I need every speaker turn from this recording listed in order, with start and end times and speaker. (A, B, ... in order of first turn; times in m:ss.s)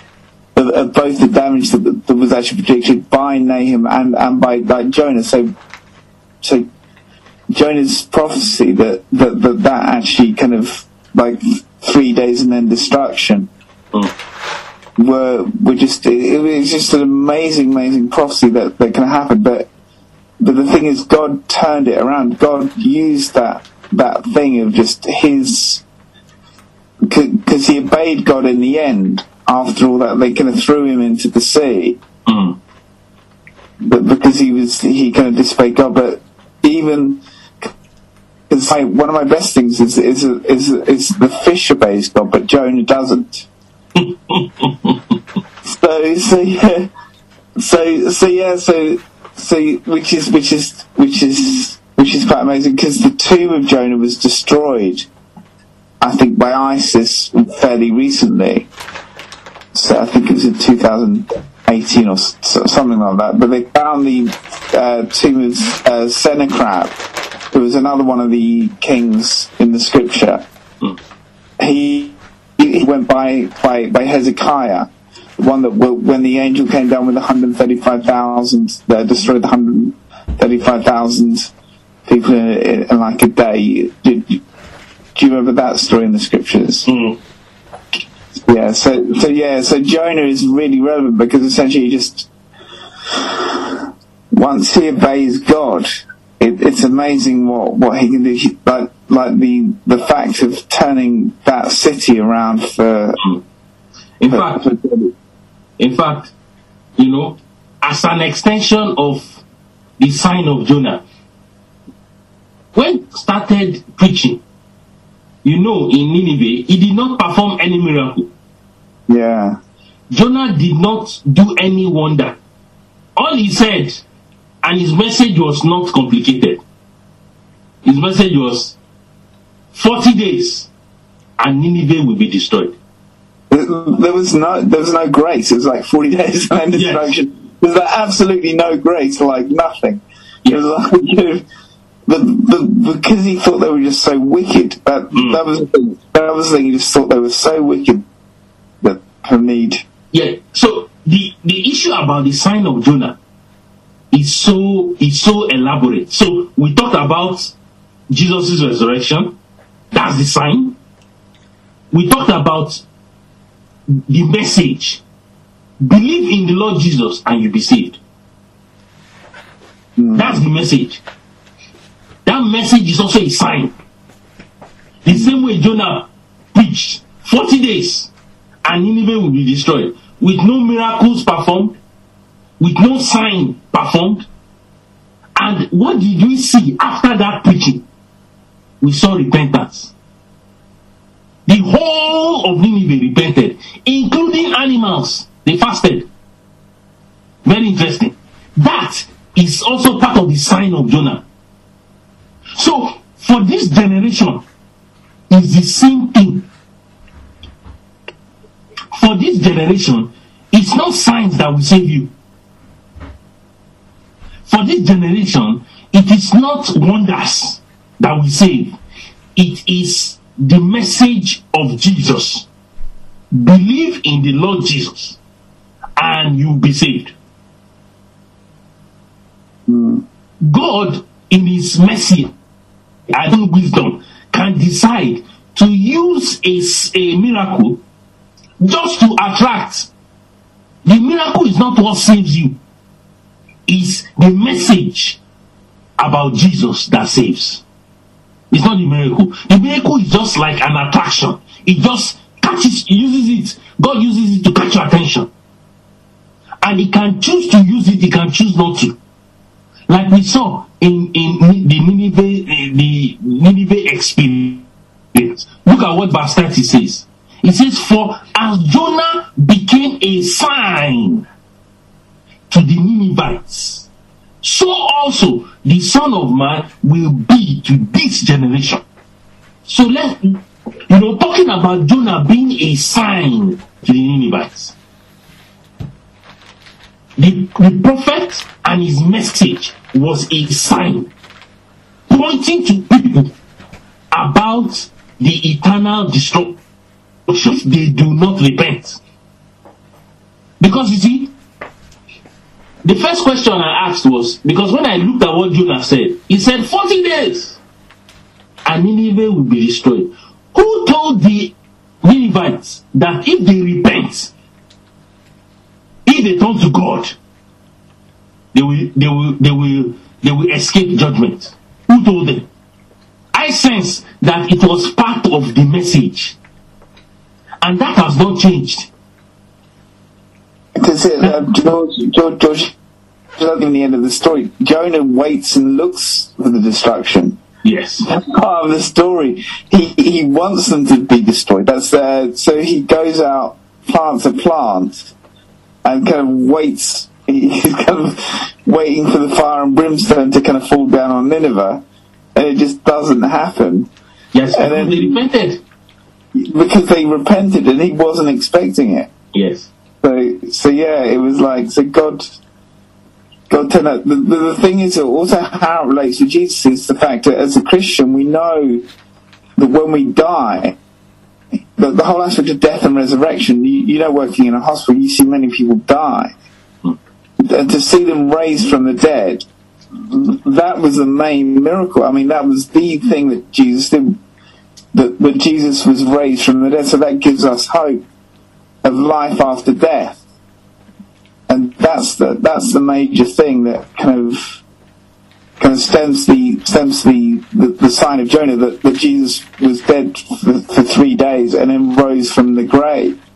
0:00.6-0:05.5 A
0:06.4-0:06.7 A
0:07.5-0:13.5 A
0:15.0-0:19.7 A
0:20.4-0:25.8 A
0:27.1-0:32.0 A
0:32.3-0:32.6 B
0:33.8-0:37.7 A
0:38.5-0:43.5 A
0:44.0-0:45.0 B
0:45.6-0:46.9 A
0:47.6-0:55.1 A
0:56.0-0:58.7 A
0:59.7-1:07.0 A
1:07.5-1:10.4 A
1:11.6-1:21.5 A
1:22.1-1:24.4 A
1:25.2-1:26.9 A
1:26.8-1:27.2 B
1:28.4-1:32.3 A
1:33.1-1:33.8 A
1:34.3-1:43.2 A
1:44.2-1:44.7 B
1:44.3-1:45.1 A
1:45.8-1:46.3 B
1:47.0-1:49.4 B
1:50.0-1:51.0 B
1:52.8-1:54.4 B
1:55.4-1:58.3 B
1:59.1-1:59.6 A
2:00.1-2:02.4 B
2:03.2-2:04.0 B
2:04.6-2:06.6 B
2:07.8-2:08.8 B
2:09.7-2:10.7 B
2:11.4-2:12.8 B
2:13.5-2:21.4 A
2:16.7-2:17.2 B
2:22.1-2:28.0 A
2:25.1-2:25.4 B
2:28.8-2:29.8 A
2:30.1-2:33.2 B
2:34.1-2:37.5 B
2:38.1-2:39.4 B
2:39.9-2:40.8 B
2:41.9-2:42.8 B
2:43.9-2:45.0 B
2:45.8-2:48.0 B
2:50.0-2:50.4 A
2:50.1-2:51.0 B
2:52.3-2:53.7 B
2:55.0-2:58.1 B
2:58.6-3:01.8 B
3:02.6-3:04.3 B
3:05.4-3:07.8 B
3:08.8-3:09.9 B
3:11.5-3:16.1 B
3:17.4-3:21.2 B
3:22.6-3:24.4 B
3:25.3-3:26.5 B
3:28.9-3:32.1 B
3:34.5-3:38.8 B
3:39.4-3:42.5 B
3:43.3-3:45.2 B
3:46.0-3:47.1 B
3:49.7-3:50.0 A
3:50.4-3:52.3 B
3:53.1-3:57.8 B
3:58.6-3:59.9 B
4:00.8-4:02.6 B
4:03.7-4:05.2 B
4:06.0-4:07.6 B
4:08.5-4:15.3 B
4:16.6-4:19.0 B
4:19.9-4:31.2 B
4:32.5-4:33.9 B
4:34.4-4:38.8 B
4:39.7-4:44.7 B
4:47.2-4:51.1 B
4:52.1-4:53.3 B
4:54.1-4:56.6 B
4:57.3-4:59.0 B
5:00.6-5:01.3 B
5:02.8-5:07.6 B
5:08.7-5:14.3 B
5:16.1-5:17.2 B
5:18.5-5:22.5 B
5:23.3-5:26.4 B
5:27.6-5:28.9 B
5:30.8-5:32.7 A
5:33.4-5:37.4 A
5:37.6-5:38.1 B
5:38.0-5:45.1 A
5:45.8-5:51.8 A
5:52.4-5:53.9 A
5:54.3-5:55.6 B
5:54.5-5:55.2 A
5:56.4-5:59.1 A
5:59.3-5:59.7 B
6:00.0-6:02.3 A
6:03.5-6:08.8 A
6:09.6-6:10.8 A
6:11.8-6:16.3 A
6:17.4-6:19.4 A
6:20.0-6:24.2 A
6:24.9-6:28.0 A
6:28.8-6:30.2 A
6:31.5-6:34.6 A
6:35.6-6:43.2 A